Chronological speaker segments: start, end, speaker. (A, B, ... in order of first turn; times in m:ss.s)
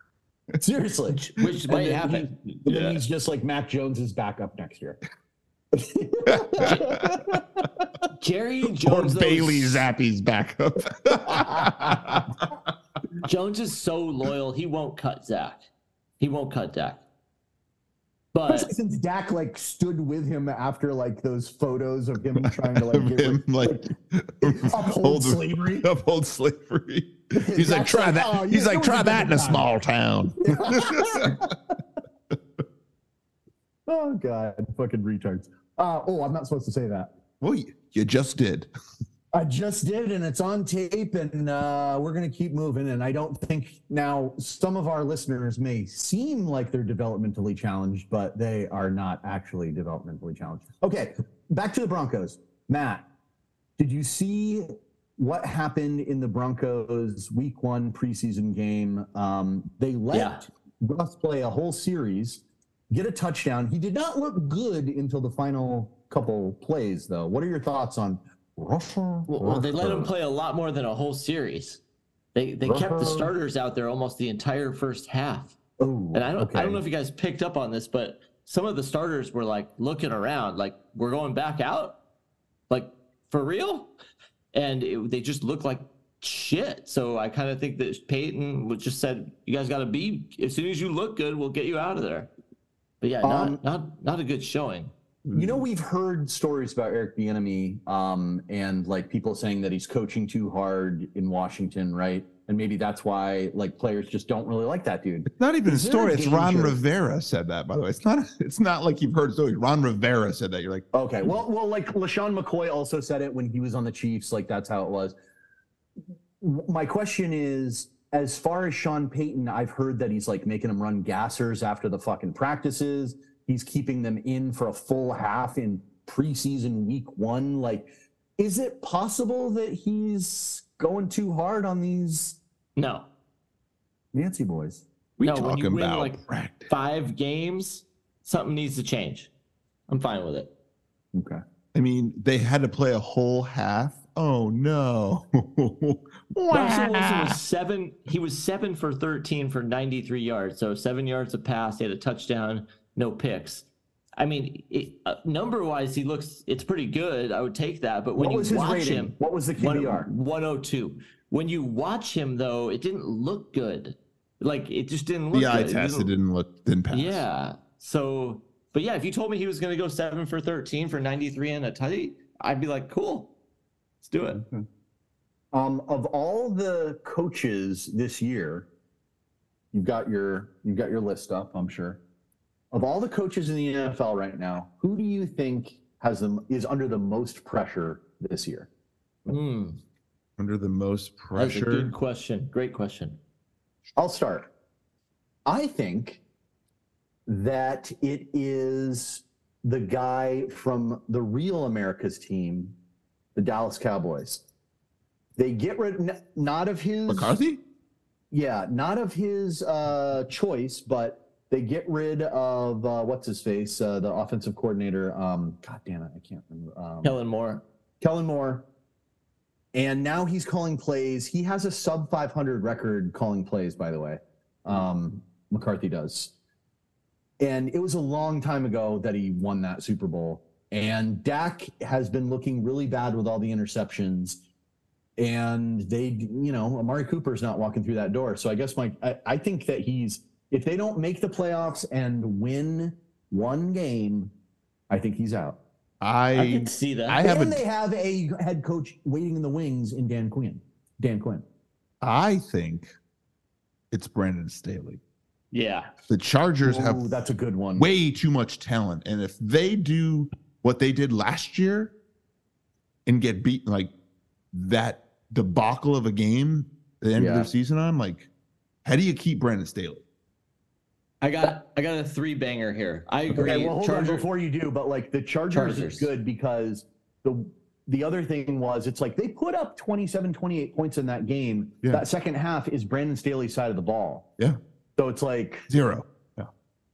0:00.6-0:05.0 A
0:01.2-0:03.0 B
0:05.7-0:07.7 A
0:06.3-0:07.2 C
0:08.2-0:09.9 B
0:08.8-0:12.3 C
0:11.3-0:12.2 A
0:13.2-0:15.7 B
0:16.2-0:17.0 B
0:18.3-0:18.7 B
0:18.5-0:23.9 A
0:22.4-0:31.4 C
0:24.4-0:25.9 A
0:27.4-0:29.6 A
0:30.4-0:31.5 A
0:33.9-0:37.1 A
0:37.4-0:38.7 C
0:39.3-0:53.0 A
0:53.8-1:10.1 A
1:00.1-1:00.4 B
1:09.3-1:11.8 B
1:12.3-1:15.6 B
1:12.6-1:13.3 A
1:15.8-1:16.8 A
1:16.1-1:22.0 B
1:22.7-1:23.9 B
1:24.5-1:32.3 B
1:33.0-1:34.9 B
1:33.2-1:33.6 A
1:35.2-1:35.6 C
1:35.3-1:46.8 A
1:45.3-1:50.8 C
1:50.9-1:55.1 A
1:56.4-2:12.4 A
2:12.8-2:13.1 B
2:14.1-2:14.8 A
2:15.2-2:16.7 C
2:15.2-2:19.3 B
2:19.9-2:20.5 B
2:21.1-2:21.4 A
2:21.7-2:27.4 C
2:26.5-2:33.6 B
2:34.2-2:46.1 B
2:38.2-2:40.1 A
2:45.3-2:47.2 C
2:46.9-2:53.3 B
2:54.0-2:54.4 B
2:54.4-2:54.6 A
2:55.5-2:58.7 A
2:59.7-3:02.0 A
3:02.7-3:08.7 A
3:09.2-3:09.8 B
3:10.4-3:11.9 C
3:11.3-3:13.2 B
3:14.0-3:14.5 A
3:15.4-3:16.2 A
3:17.3-3:22.7 A
3:23.3-3:24.4 A
3:25.4-3:27.4 A
3:27.1-3:27.6 C
3:28.3-3:37.2 A
3:37.0-3:37.6 B
3:38.0-3:38.6 A
3:39.7-3:46.3 A
3:47.4-3:54.4 A
3:55.2-4:04.3 A
4:04.9-4:05.6 A
4:06.0-4:07.6 C
4:06.3-4:07.2 B
4:07.2-4:11.4 A
4:12.0-4:12.9 C
4:13.9-4:15.0 C
4:15.5-4:15.9 B
4:16.1-4:17.1 C
4:16.6-4:17.9 A
4:17.8-4:21.9 C
4:23.0-4:23.9 C
4:24.5-4:28.3 C
4:27.2-4:27.5 A
4:28.8-4:30.0 C
4:31.2-4:34.3 B
4:33.3-4:44.3 A
4:35.5-4:36.1 B
4:45.0-4:45.7 A
4:45.7-4:46.5 C